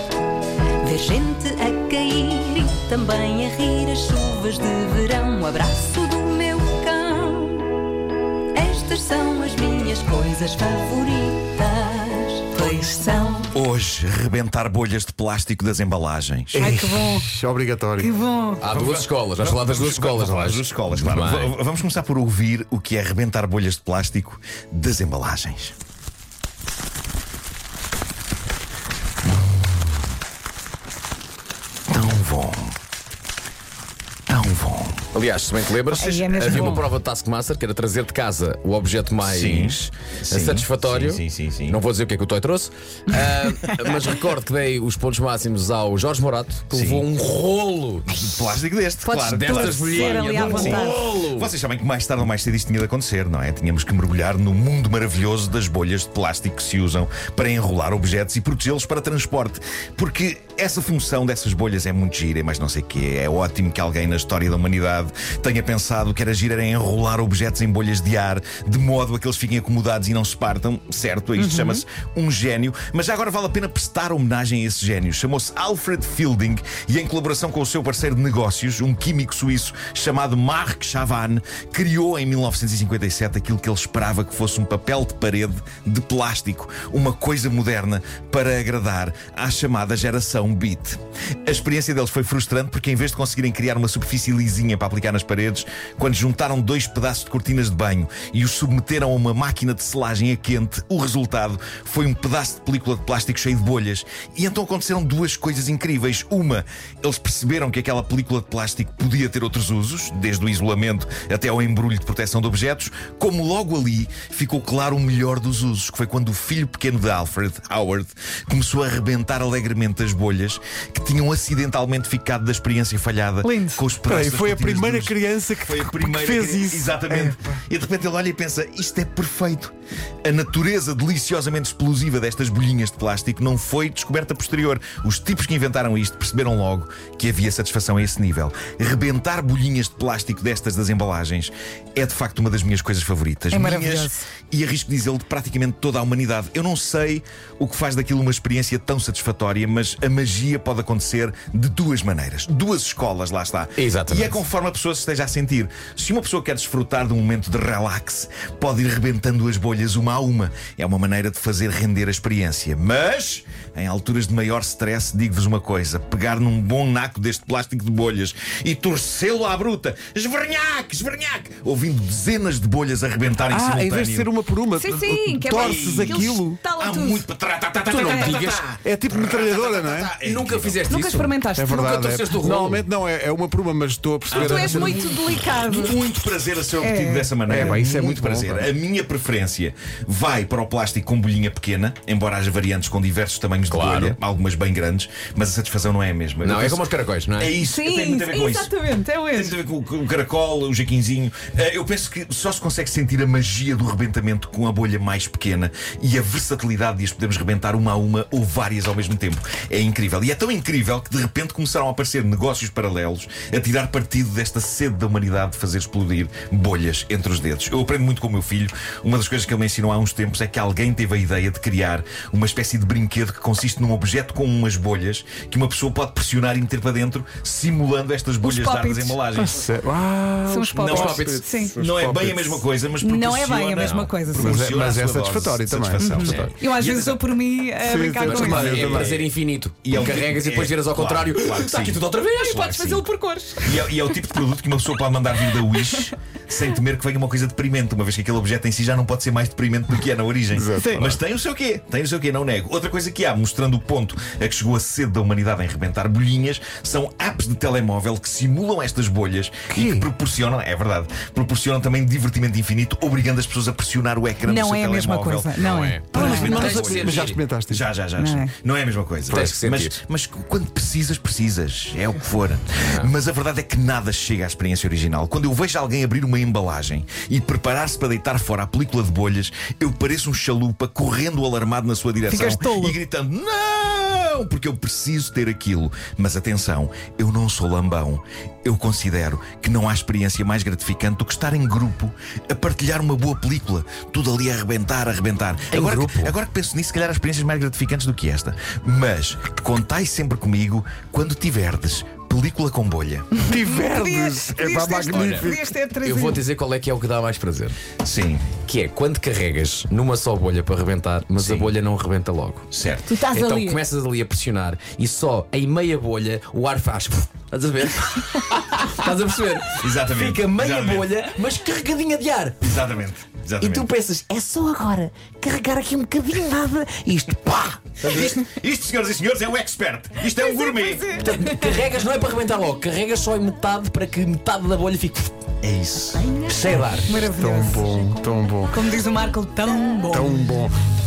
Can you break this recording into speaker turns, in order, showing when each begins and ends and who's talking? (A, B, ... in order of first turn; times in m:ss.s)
0:00.8-0:07.7 A
0:08.5-0:13.5 A
0:13.5-0:16.8 B
0:16.5-0:17.3 C
0:16.6-0:18.1 D
0:18.0-0:18.6 C
0:18.6-0:21.6 E
0:18.7-0:25.7 B
0:31.9-0:32.8 B
0:34.3-0:35.1 B
0:35.1-0:48.4 E
0:35.9-0:36.8 B
0:35.9-0:36.9 C
0:39.2-0:41.8 B
0:46.7-0:47.1 B
0:48.1-2:54.3 B
0:49.0-0:51.5 E
0:49.3-0:51.1 C
1:11.4-1:11.8 C
2:03.4-2:03.9 C
2:04.0-2:07.6 D
2:23.5-2:24.3 C
2:33.8-2:34.4 E
2:53.5-2:56.6 D
2:54.7-2:57.3 C
2:55.5-3:01.0 B
2:57.9-2:58.7 E
2:58.0-2:58.4 C
2:58.8-3:00.1 D
3:00.2-3:02.8 E
3:00.9-3:01.8 C
3:01.5-3:05.3 D
3:04.3-3:18.7 B
3:04.3-3:06.0 C
3:06.7-3:07.7 C
3:07.5-3:08.7 D
3:13.7-3:14.2 E
3:16.4-3:17.6 E
3:17.6-3:19.6 C
3:19.3-3:49.6 B
3:48.4-3:49.2 C
3:49.3-3:52.6 D
3:50.4-3:51.8 C
3:50.8-3:57.3 B
3:50.9-3:51.4 E
3:53.0-3:54.7 C
3:53.8-3:54.1 E
3:54.3-3:56.1 D
3:56.0-3:58.7 C
3:56.1-3:56.5 E
3:57.8-3:59.2 D
3:58.2-4:03.1 E
3:58.5-3:59.3 B
3:59.8-4:02.0 B
4:02.3-4:04.0 C
4:03.6-5:03.5 B
4:05.6-4:06.1 C
4:10.5-4:11.2 D
4:19.7-4:20.1 D
4:24.4-4:26.7 C
4:25.6-4:27.4 E
4:26.1-4:27.9 D
4:28.1-4:28.5 C
4:29.3-4:30.0 E
4:32.8-4:33.1 E
4:42.3-4:43.0 C
4:55.7-4:56.3 E
5:03.4-5:05.8 D
5:03.6-5:06.4 C
5:05.1-5:05.5 E
5:06.0-5:07.8 E
5:08.0-5:08.5 B
5:08.6-5:22.6 E
5:11.4-5:11.7 B
5:12.7-5:13.1 B
5:13.1-5:13.8 C
5:19.8-5:21.1 B
5:22.6-5:23.9 B
5:23.6-5:28.4 E
5:28.0-5:31.2 B
5:30.3-5:31.7 C
5:31.1-5:35.3 E
5:35.6-5:36.3 B
5:36.2-5:38.1 A
5:36.4-5:37.1 E
5:37.0-5:37.9 C
5:37.3-5:38.8 D
5:38.7-5:40.3 C
5:38.7-5:40.2 A
5:40.1-5:40.7 D